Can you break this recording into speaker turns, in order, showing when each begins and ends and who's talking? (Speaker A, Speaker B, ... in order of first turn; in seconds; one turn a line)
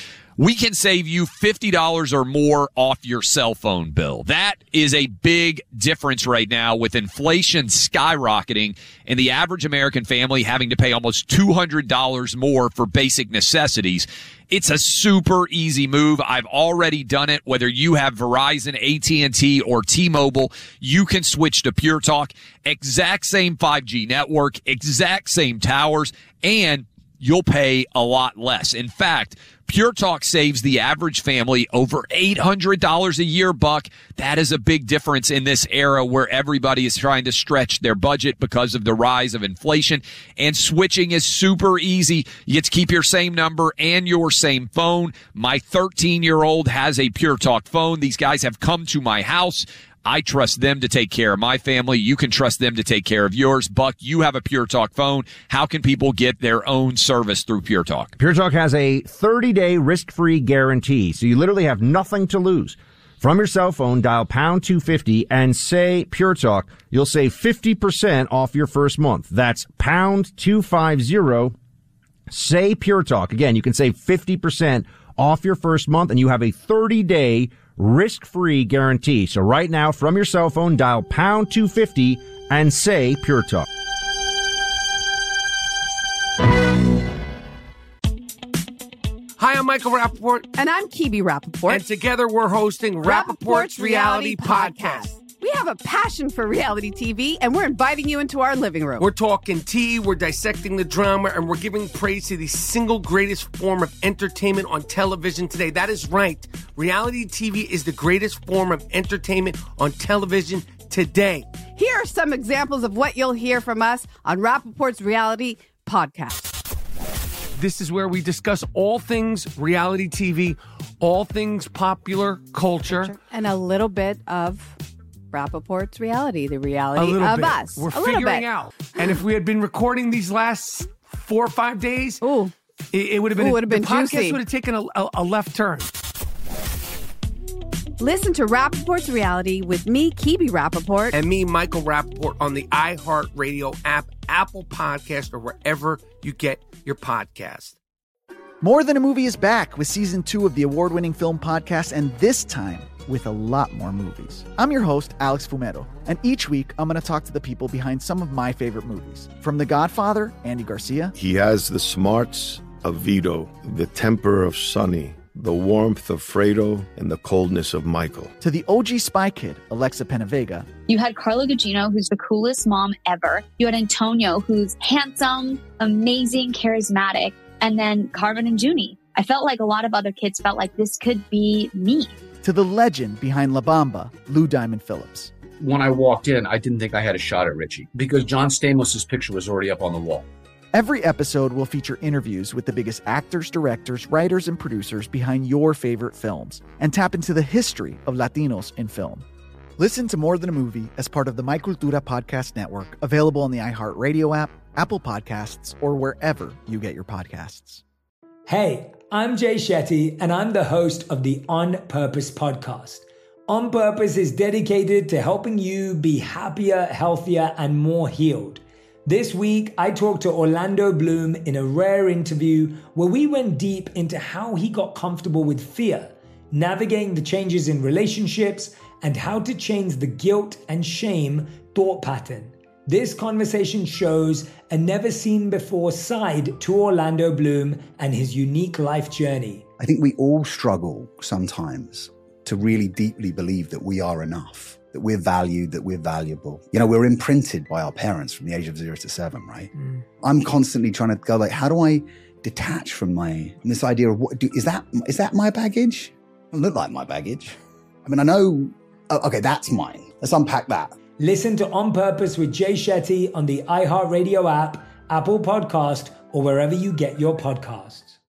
Speaker A: 0.4-58.1
Speaker B: 58.2-71.5
Speaker B: 72.3-83.7
Speaker C: 89.4-90.5
Speaker D: 90.5-91.8
Speaker C: 91.7-95.1
Speaker D: 93.0-99.1
Speaker C: 99.0-111.5
Speaker D: 111.7-116.5
Speaker C: 117.6-123.1
Speaker D: 122.8-124.8
Speaker D: 125.3-128.5
Speaker C: 126.9-132.2
Speaker D: 132.2-132.5
Speaker C: 132.9-135.9
Speaker D: 133.3-134.4
Speaker D: 138.0-141.1
Speaker C: 141.1-147.8
Speaker E: 148.6-161.1
Speaker F: 161.1-168.3
Speaker E: 168.4-170.7
Speaker G: 170.9-182.2
Speaker E: 182.4-185.3
Speaker H: 185.6-190.3
Speaker E: 190.7-199.2
Speaker E: 199.8-207.8
Speaker I: 208.5-239.6
Speaker J: 239.8-257.5
Speaker J: 258.0-260.9
Speaker I: 261.2-268.2